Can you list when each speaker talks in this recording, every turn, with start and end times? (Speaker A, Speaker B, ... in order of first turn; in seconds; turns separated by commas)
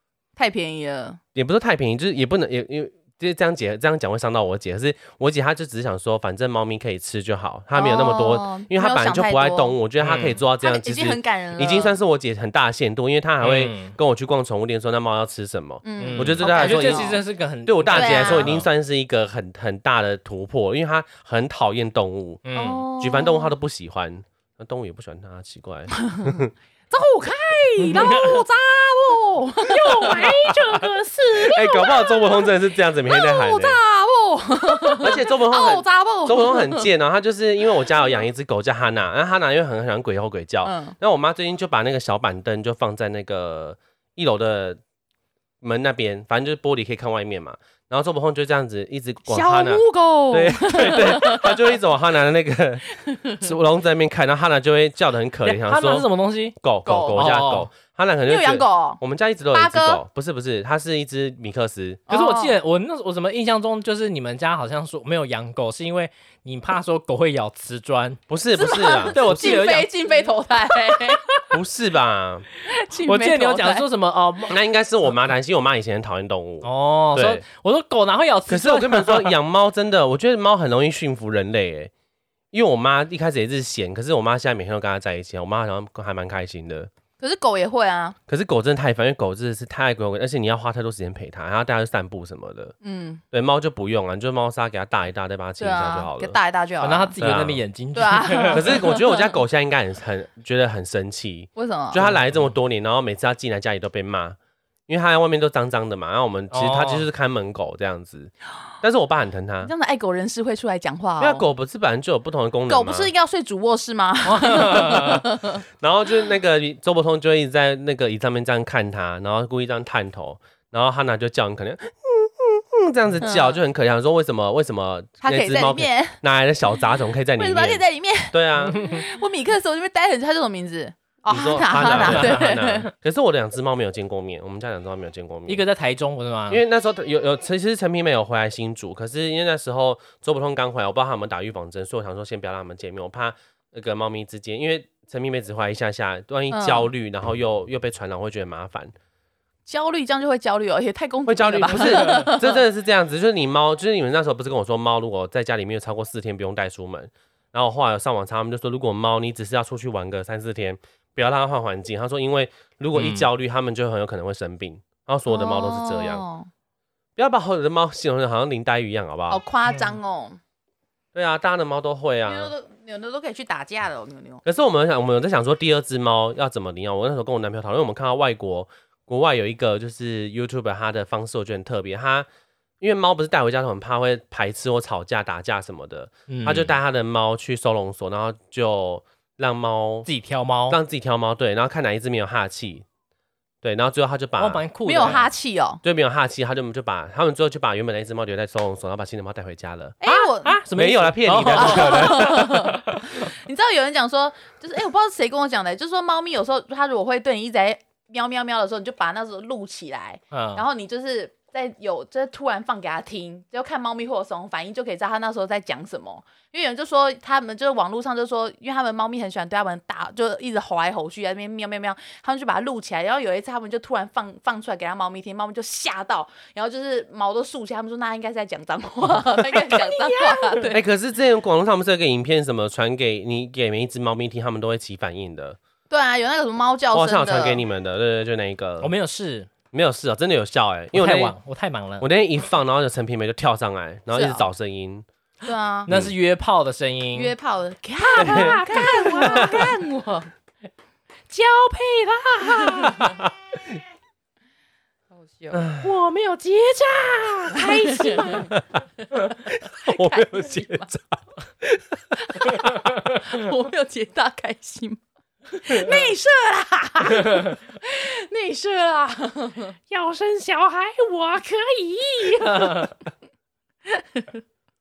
Speaker A: 0.4-1.2, Speaker B: 1.4-22.5, Speaker A: 7.8-9.8, Speaker C: 10.0-10.4, Speaker A: 10.6-12.0, Speaker C: 13.4-13.9, Speaker A: 15.8-17.2, Speaker C: 16.0-18.7, Speaker A: 17.9-18.5, Speaker C: 22.5-22.9, Speaker A: 22.6-23.5, Speaker B: 23.0-26.5, Speaker A: 26.9-32.5, Speaker C: 27.8-28.5, Speaker C: 29.7-31.0, Speaker B: 30.0-33.8, Speaker A: 33.1-36.9, Speaker B: 35.0-44.8, Speaker A: 40.6-41.0, Speaker B: 45.6-52.9, Speaker A: 49.3-51.6, Speaker A: 53.0-53.4, Speaker B: 53.4-56.1, Speaker C: 55.5-56.6, Speaker B: 56.6-62.0, Speaker A: 56.9-57.3, Speaker C: 57.1-57.7, Speaker A: 58.3-59.0, Speaker A: 59.5-60.0, Speaker A: 62.1-62.5, Speaker C: 62.1-68.2, Speaker B: 68.3-69.7, Speaker A: 68.6-71.2, Speaker C: 68.9-69.9, Speaker C: 70.7-71.0, Speaker B: 71.5-72.5, Speaker A: 72.7-73.9, Speaker C: 73.1-74.6, Speaker B: 74.5-77.4, Speaker C: 76.6-79.3, Speaker B: 78.5-81.9, Speaker B: 82.5-86.9, Speaker A: 87.2-88.2, Speaker B: 88.3-92.7, Speaker A: 92.8-93.2, Speaker B: 93.3-96.4, Speaker A: 95.6-97.1, Speaker C: 96.8-98.8, Speaker B: 97.2-97.6, Speaker A: 97.9-99.2, Speaker B: 98.5-104.4, Speaker A: 101.6-102.0, Speaker B: 104.9-108.3, Speaker C: 106.5-107.1, Speaker B: 108.8-109.7, Speaker A: 109.6-111.5, Speaker B: 111.2-113.1, Speaker A: 112.7-115.6, Speaker C: 114.3-115.2, Speaker B: 115.8-128.9, Speaker A: 123.2-123.6, Speaker A: 125.2-126.2, Speaker A: 127.4-132.9, Speaker B: 131.3-135.6, Speaker C: 131.9-132.7, Speaker C: 135.5-136.6, Speaker B: 136.5-148.9, Speaker A: 146.5-146.9, Speaker A: 149.7-152.6, Speaker B: 151.3-166.2, Speaker C: 162.9-163.3, Speaker A: 165.3-166.5, Speaker B: 167.2-169.4, Speaker A: 169.3-170.4, Speaker C: 169.7-169.9, Speaker B: 171.2-172.5, Speaker A: 172.3-174.4, Speaker B: 174.4-182.3, Speaker B: 182.8-190.1, Speaker C: 186.3-186.7, Speaker C: 190.1-190.8, Speaker B: 190.7-192.9, Speaker B: 193.6-195.2, Speaker C: 194.4-195.3, Speaker A: 194.8-195.8, Speaker B: 195.8-200.0, Speaker A: 200.0-200.6, Speaker C: 200.1-203.0, Speaker B: 200.7-202.6, Speaker A: 201.5-230.8, Speaker C: 210.3-210.6, Speaker C: 229.5-230.8, Speaker B: 230.7-235.6, Speaker A: 235.9-237.6, Speaker B: 236.9-238.9, Speaker C: 238.8-239.5, Speaker B: 239.7-241.3, Speaker C: 240.9-242.1, Speaker B: 242.0-245.1, Speaker A: 244.1-244.4, Speaker A: 245.4-245.9, Speaker C: 245.9-247.3, Speaker B: 245.9-246.1, Speaker A: 247.1-250.3, Speaker C: 248.0-249.8, Speaker B: 248.2-248.6, Speaker B: 249.2-249.6, Speaker C: 251.3-253.1, Speaker B: 253.0-253.3, Speaker A: 255.2-255.7, Speaker B: 255.5-255.9, Speaker C: 255.8-258.5, Speaker A: 257.6-258.5, Speaker B: 259.6-262.8, Speaker A: 259.9-260.9, Speaker A: 262.3-269.7, Speaker C: 269.9-272.9, Speaker A: 273.9-274.4